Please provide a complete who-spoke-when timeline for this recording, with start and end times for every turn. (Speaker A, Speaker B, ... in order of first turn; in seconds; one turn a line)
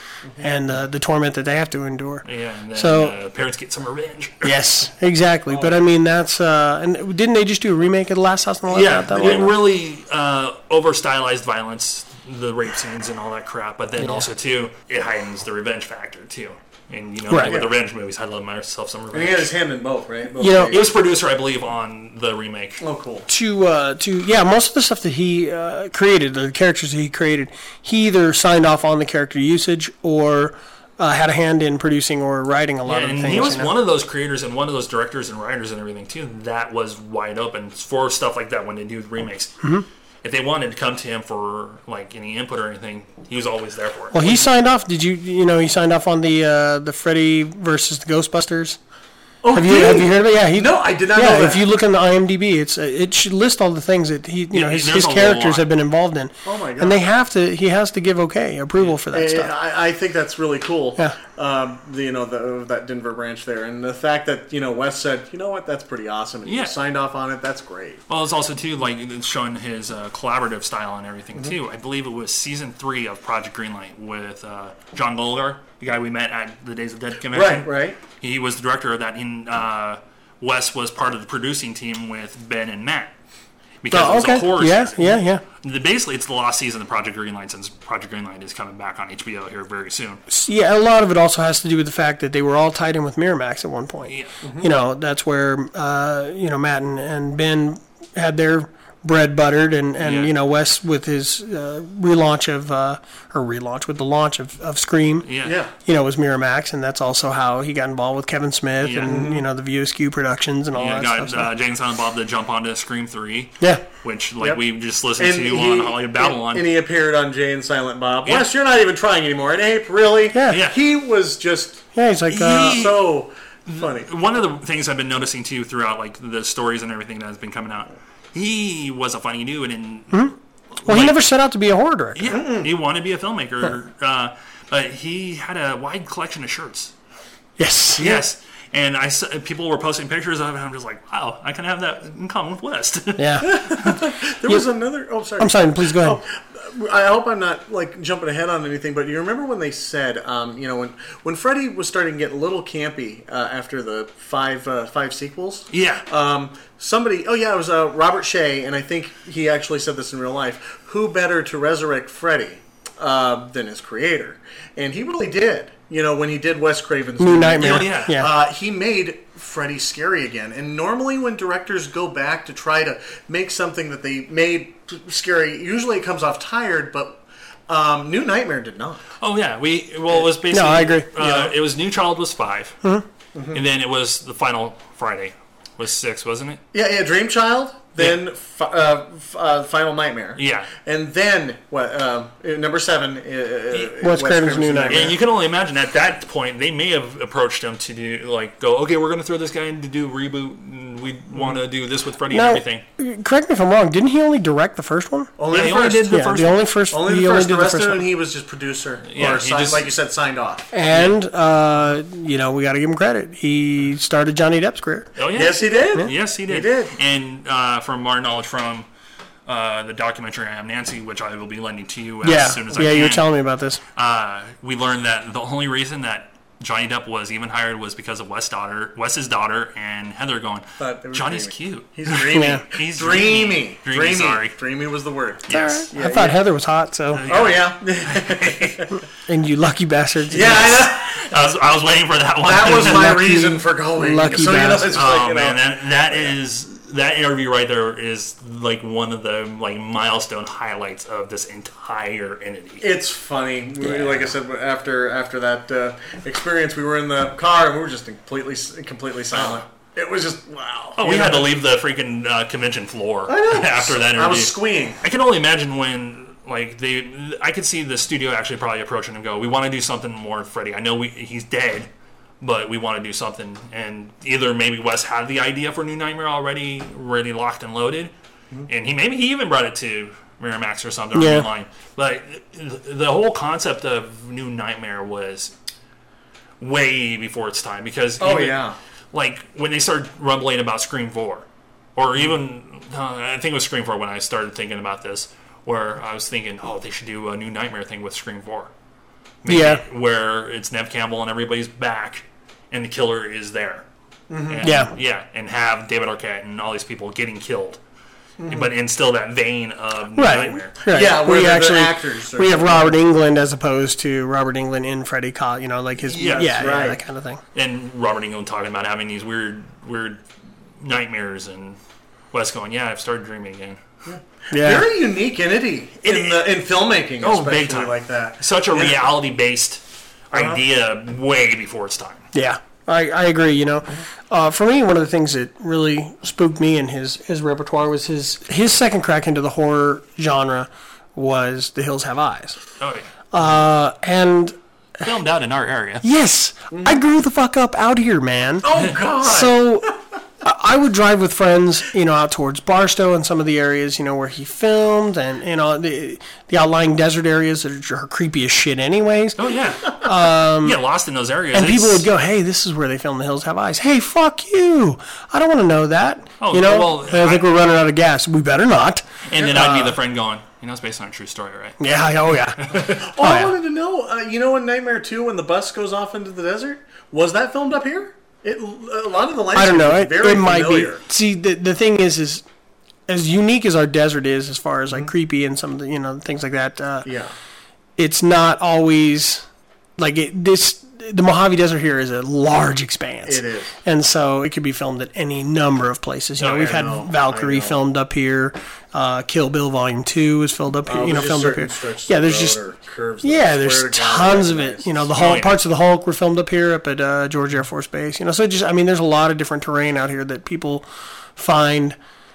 Speaker A: 0.3-0.6
Speaker B: 0.4-3.1
Speaker C: 2.2-4.5
Speaker B: 4.4-9.6
Speaker A: 5.5-5.8
Speaker C: 8.7-19.5
Speaker B: 17.3-17.6
Speaker A: 17.4-17.7
Speaker A: 19.1-20.9
Speaker B: 20.4-20.8
Speaker C: 20.6-22.8
Speaker A: 22.8-23.3
Speaker B: 23.3-33.8
Speaker C: 32.9-39.6
Speaker C: 40.2-44.5
Speaker B: 44.1-48.8
Speaker A: 49.4-51.6
Speaker B: 49.5-59.5
Speaker C: 54.5-55.6
Speaker A: 56.4-57.0
Speaker A: 59.1-68.0
Speaker C: 66.5-66.7
Speaker C: 68.1-83.1
Speaker A: 77.3-78.0
Speaker C: 83.8-90.2
Speaker B: 83.9-85.4
Speaker B: 90.3-105.3
Speaker A: 94.4-94.7
Speaker C: 100.0-100.3
Speaker C: 105.2-105.6
Speaker A: 105.4-105.7
Speaker B: 105.8-111.5
Speaker C: 108.8-109.2
Speaker A: 109.0-109.4
Speaker C: 110.7-116.7
Speaker A: 115.2-121.8
Speaker C: 118.2-118.5
Speaker B: 120.3-120.6
Speaker C: 120.5-120.8
Speaker B: 121.9-122.9
Speaker C: 122.3-123.1
Speaker A: 122.6-124.1
Speaker C: 123.7-131.2
Speaker B: 130.8-132.4
Speaker C: 132.1-136.9
Speaker A: 132.3-132.7
Speaker B: 137.6-138.2
Speaker C: 138.0-143.9
Speaker B: 143.2-143.8
Speaker A: 143.4-179.0
Speaker B: 145.4-146.2
Speaker C: 155.7-156.1
Speaker B: 167.2-168.3
Speaker C: 167.6-168.2
Speaker C: 179.2-182.8
Speaker B: 180.5-181.5
Speaker A: 183.3-183.6
Speaker C: 183.5-186.6
Speaker A: 186.7-195.2
Speaker C: 190.3-190.7
Speaker B: 194.0-195.2
Speaker C: 194.9-202.8
Speaker B: 202.3-205.3
Speaker A: 205.4-206.2
Speaker C: 205.5-206.7
Speaker B: 206.1-208.0
Speaker A: 206.9-210.7
Speaker C: 209.1-209.9
Speaker B: 210.7-215.1
Speaker C: 210.9-211.2
Speaker C: 215.2-218.8
Speaker A: 215.3-216.9
Speaker C: 219.4-223.2
Speaker B: 222.2-223.8
Speaker C: 223.9-234.6
Speaker A: 230.8-236.4
Speaker B: 232.3-232.6
Speaker C: 235.5-235.9
Speaker B: 235.5-237.3
Speaker C: 237.1-238.9
Speaker A: 237.3-239.0
Speaker B: 239.3-240.8
Speaker A: 240.3-241.3
Speaker C: 240.3-243.3
Speaker A: 242.4-246.3
Speaker B: 242.6-245.0
Speaker C: 244.6-252.8
Speaker A: 252.8-261.5
Speaker C: 259.3-259.6
Speaker C: 261.0-271.9
Speaker A: 263.3-265.0
Speaker C: 272.4-278.1
Speaker C: 278.7-285.5
Speaker B: 281.1-281.5
Speaker C: 286.6-298.7
Speaker A: 288.2-288.8
Speaker C: 299.4-303.9
Speaker B: 299.5-299.8
Speaker A: 304.3-304.7
Speaker C: 304.4-307.8
Speaker B: 304.6-304.9
Speaker A: 308.4-308.7
Speaker C: 308.5-310.7
Speaker B: 310.1-317.4
Speaker A: 310.9-313.0
Speaker C: 316.0-316.9
Speaker A: 316.4-317.0
Speaker C: 317.5-320.2
Speaker C: 320.8-321.8
Speaker C: 322.3-323.8
Speaker A: 324.1-329.0
Speaker B: 324.5-324.9
Speaker C: 326.0-326.5
Speaker C: 327.2-332.2
Speaker A: 330.3-330.6
Speaker B: 332.3-342.6
Speaker C: 342.8-343.1
Speaker B: 343.3-344.6
Speaker C: 345.0-346.0
Speaker B: 346.0-360.8
Speaker A: 346.7-347.0
Speaker A: 348.6-349.6
Speaker C: 359.4-362.1
Speaker B: 361.5-370.0
Speaker C: 366.4-367.4
Speaker C: 369.3-371.8
Speaker B: 371.8-373.6
Speaker C: 372.5-373.0
Speaker A: 372.9-381.0
Speaker B: 379.5-382.4
Speaker B: 383.1-387.1
Speaker A: 387.0-387.3
Speaker B: 388.0-389.4
Speaker B: 390.0-402.6
Speaker A: 393.2-393.8
Speaker A: 396.4-397.8
Speaker A: 400.9-405.1
Speaker B: 403.2-411.9
Speaker C: 405.1-405.6